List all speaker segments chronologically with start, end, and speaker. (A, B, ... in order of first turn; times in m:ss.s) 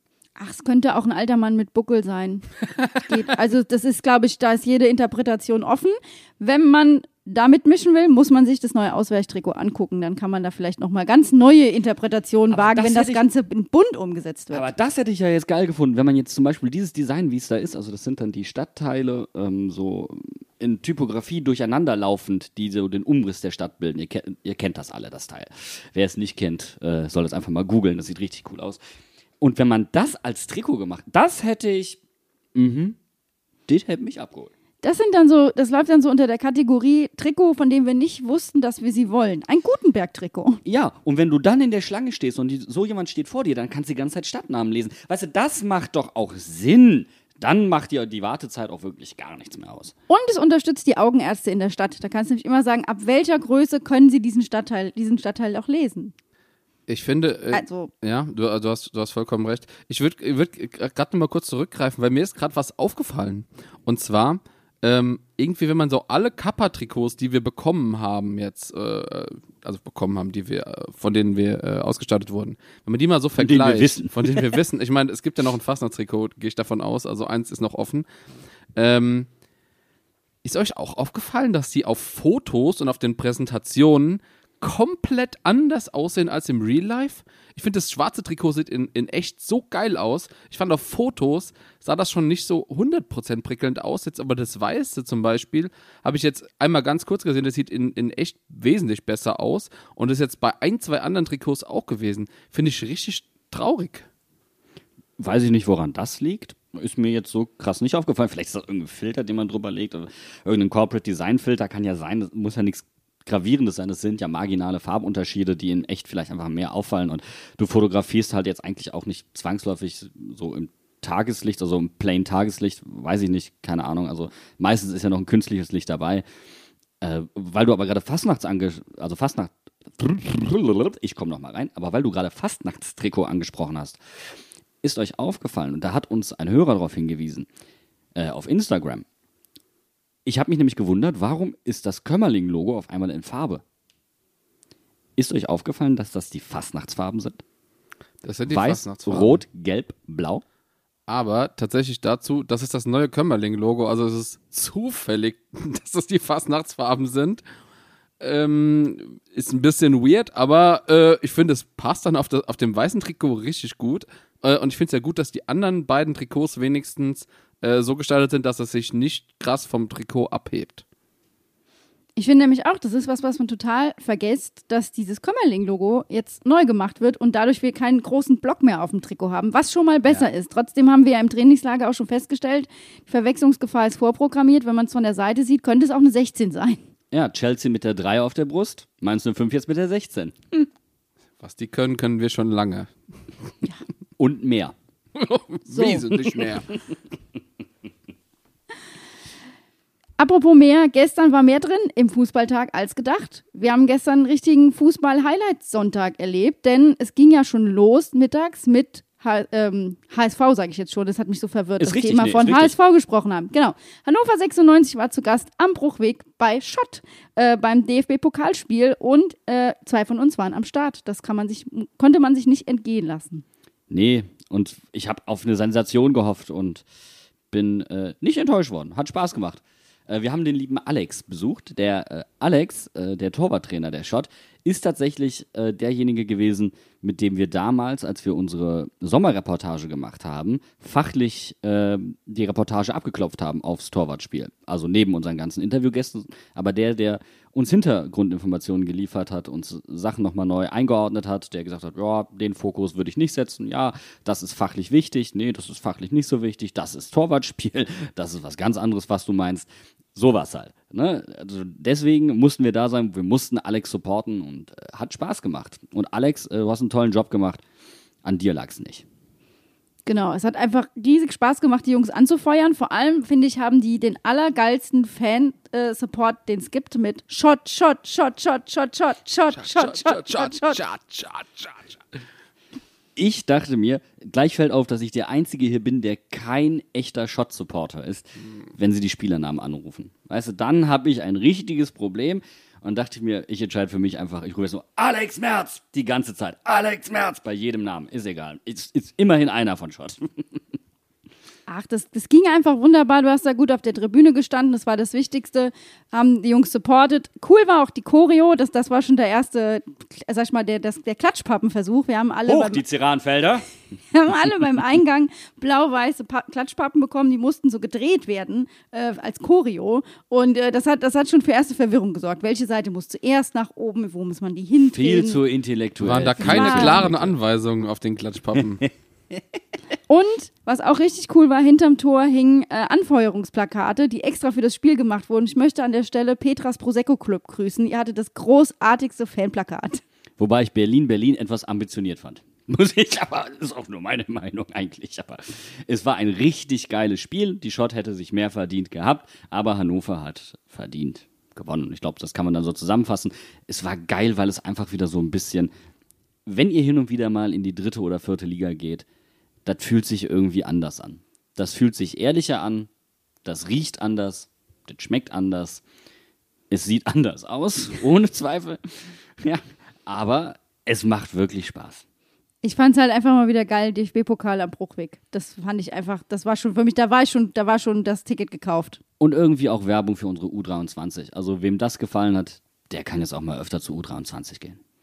0:00.4-0:14.6 A
0:12.5-0:13.2 B
0:14.5-0:28.8 B
0:29.4-0:32.0 B
0:32.6-0:33.0 B
0:33.7-0:34.5 B
0:34.8-0:40.6 A
0:40.7-0:49.9 B
0:50.1-0:56.1 A
0:56.9-1:18.1 C
0:57.5-0:57.9 A
1:13.4-1:14.6 B
1:18.8-1:19.3 C
1:20.4-1:44.1 C
1:45.2-2:06.2 B
2:07.0-2:14.0 B
2:14.8-2:17.5 B
2:18.2-2:19.0 B
2:20.2-2:23.6 B
2:25.2-2:27.4 B
2:28.2-2:29.4 C
2:28.5-2:30.4 B
2:31.1-2:37.4 C
2:38.2-2:50.8 C
2:52.2-3:06.8 A
3:07.1-3:10.7 B
3:11.4-3:12.9 C
3:14.2-3:14.8 B
3:15.2-3:16.7 C
3:16.1-3:16.4 B
3:20.2-3:43.4 A
3:31.8-3:32.7 B
3:43.9-3:46.8 B
3:47.5-4:27.6 B
4:28.2-4:29.0 B
4:30.1-4:40.8 A
4:39.6-4:42.0 C
4:43.2-5:00.6 B
5:01.7-5:12.8 A
5:12.5-5:13.6 B
5:14.1-5:25.4 A
5:24.9-5:27.3 B
5:26.0-5:28.9 C
5:26.4-5:27.1 A
5:30.1-5:40.0 A
5:40.4-5:55.7 B
5:56.5-5:59.0 B
5:59.6-6:02.9 B
6:03.4-6:05.8 B
6:06.7-6:12.0 B
6:12.6-6:19.0 A
6:19.2-6:24.8 B